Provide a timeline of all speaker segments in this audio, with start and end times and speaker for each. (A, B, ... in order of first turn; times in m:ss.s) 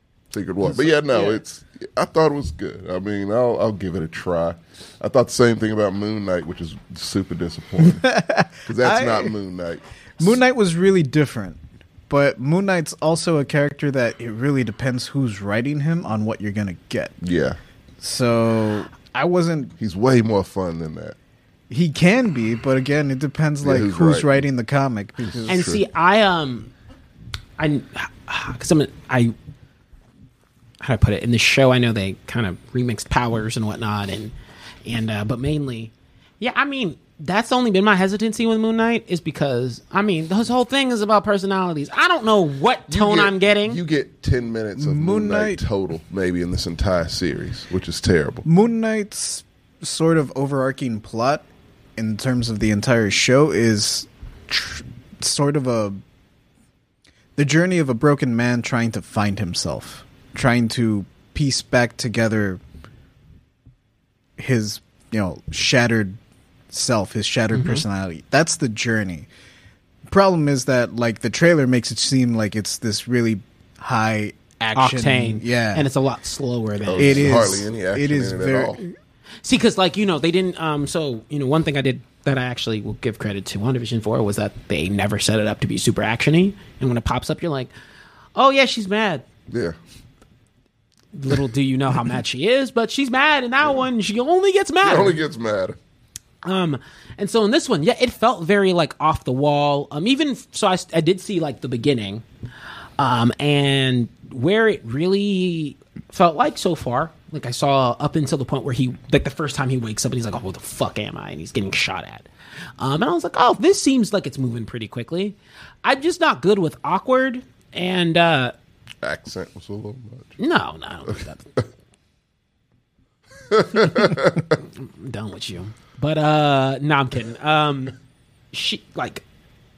0:00.3-0:08.1 A
0:01.1-0:01.4 B
0:07.8-0:09.3 C
0:08.6-0:10.4 A
0:10.2-0:17.1 C
0:17.2-0:17.6 A
0:18.0-0:19.7 C
0:19.8-0:21.2 A
0:21.7-0:25.7 C
0:23.6-0:24.3 A
0:25.3-0:25.8 A
0:25.5-0:26.7 B
0:27.6-0:29.3 B
0:30.8-0:34.3 B
0:34.8-0:43.8 B
0:42.9-0:48.4 A
0:44.8-0:45.6 C
0:48.4-0:51.4 C
0:52.0-0:56.0 C
0:57.4-1:02.6 C
1:04.4-1:06.2 C
1:06.7-1:09.3 C
1:07.5-1:07.8 B
1:10.1-1:15.9 C
1:14.7-1:17.6 B
1:16.8-1:18.8 A
1:17.0-1:18.9 C
1:19.4-1:27.7 B
1:28.4-1:29.2 B
1:29.5-1:29.8 A
1:31.1-1:35.2 B
1:34.8-1:35.8 A
1:36.4-1:42.2 B
1:43.0-1:52.3 B
1:52.8-1:58.5 B
1:59.0-2:00.4 A
2:00.4-2:01.6 B
2:03.5-2:04.5 A
2:04.0-2:08.0 B
2:08.5-2:09.2 B